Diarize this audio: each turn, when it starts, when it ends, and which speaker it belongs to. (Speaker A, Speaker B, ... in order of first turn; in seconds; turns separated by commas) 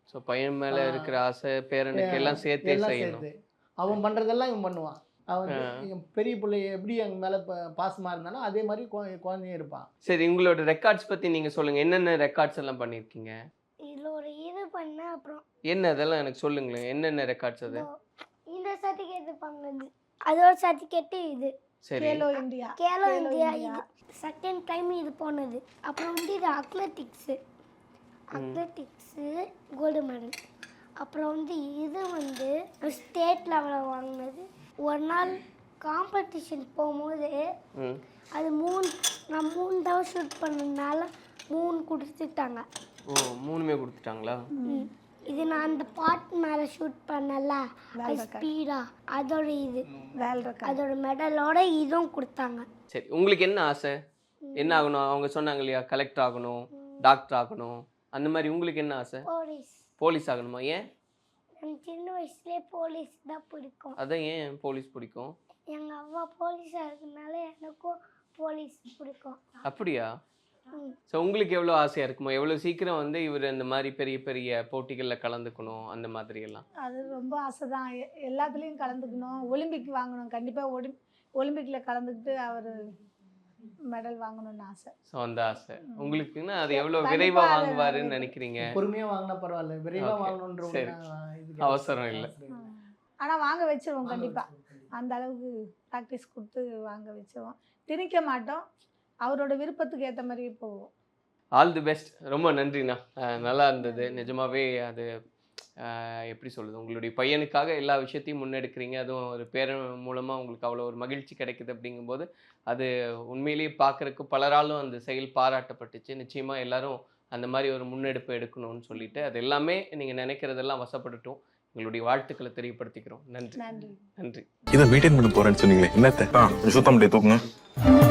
Speaker A: 0.1-3.2, Speaker B: 0.7-1.1, Speaker B: 1.9-9.9, Speaker A: 5.5-5.8, Speaker A: 10.0-13.3, Speaker C: 13.8-15.4, Speaker A: 15.7-17.9, Speaker C: 18.5-21.5, Speaker A: 21.8-22.2, Speaker D: 22.0-23.8, Speaker C: 22.8-27.4, Speaker C: 28.3-30.4, Speaker A: 28.3-28.6, Speaker C: 31.0-37.4, Speaker A: 37.8-38.0, Speaker C: 38.3-42.6, Speaker A: 43.1-44.5, Speaker D: 44.5-44.9, Speaker C: 44.7-49.9, Speaker D: 48.0-48.5, Speaker D: 50.2-50.8, Speaker C: 50.6-52.6, Speaker A: 52.9-54.0, Speaker C: 54.4-54.9, Speaker A: 54.6-59.2, Speaker C: 59.2-59.9, Speaker A: 60.0-60.9, Speaker C: 61.6-64.0, Speaker A: 64.0-65.3, Speaker C: 65.7-69.5, Speaker A: 69.6-70.1, Speaker C: 70.7-71.0, Speaker A: 71.1-76.6, Speaker D: 76.8-82.8, Speaker D: 83.9-84.9, Speaker A: 85.1-88.7, Speaker D: 85.9-88.3, Speaker B: 88.6-92.7, Speaker A: 90.0-90.9, Speaker A: 91.6-92.3, Speaker D: 92.5-98.6, Speaker B: 94.0-94.9, Speaker D: 99.2-100.9, Speaker A: 101.5-105.1, Speaker D: 103.8-104.3, Speaker A: 105.8-123.6, Speaker D: 123.6-124.0, Speaker A: 124.2-124.5, Speaker E: 124.7-127.4